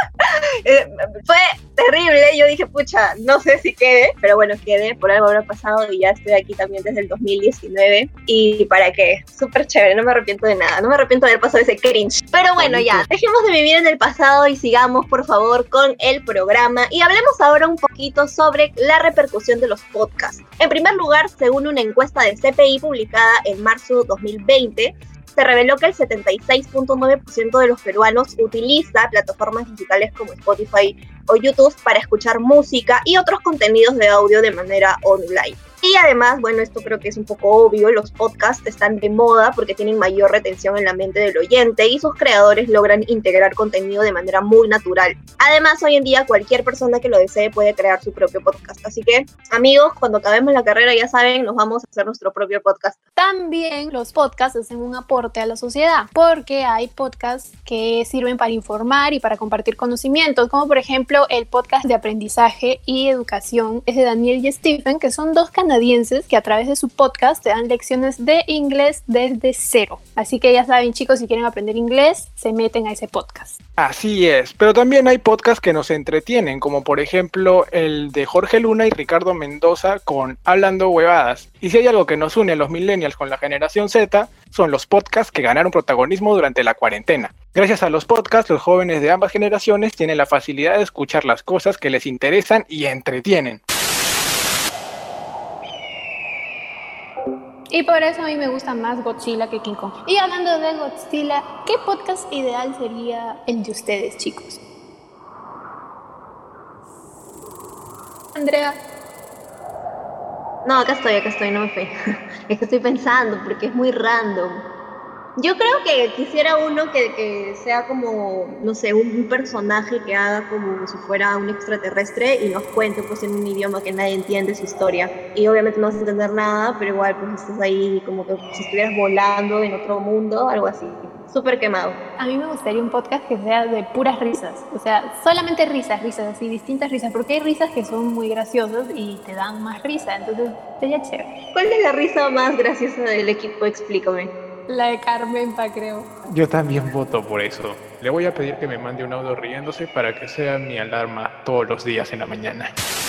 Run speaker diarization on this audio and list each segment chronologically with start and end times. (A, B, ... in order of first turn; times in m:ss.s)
0:00.6-0:53.0 A
0:53.2-1:13.6 B
1:13.8-1:33.6 C
1:37.7-1:44.6 B
1:48.3-1:48.8 B
1:50.6-1:51.9 A
1:52.5-1:54.6 A
1:55.4-2:12.0 A
2:12.2-2:21.3 B
2:21.5-2:24.3 A
2:24.7-2:26.1 B
2:26.3-2:32.7 C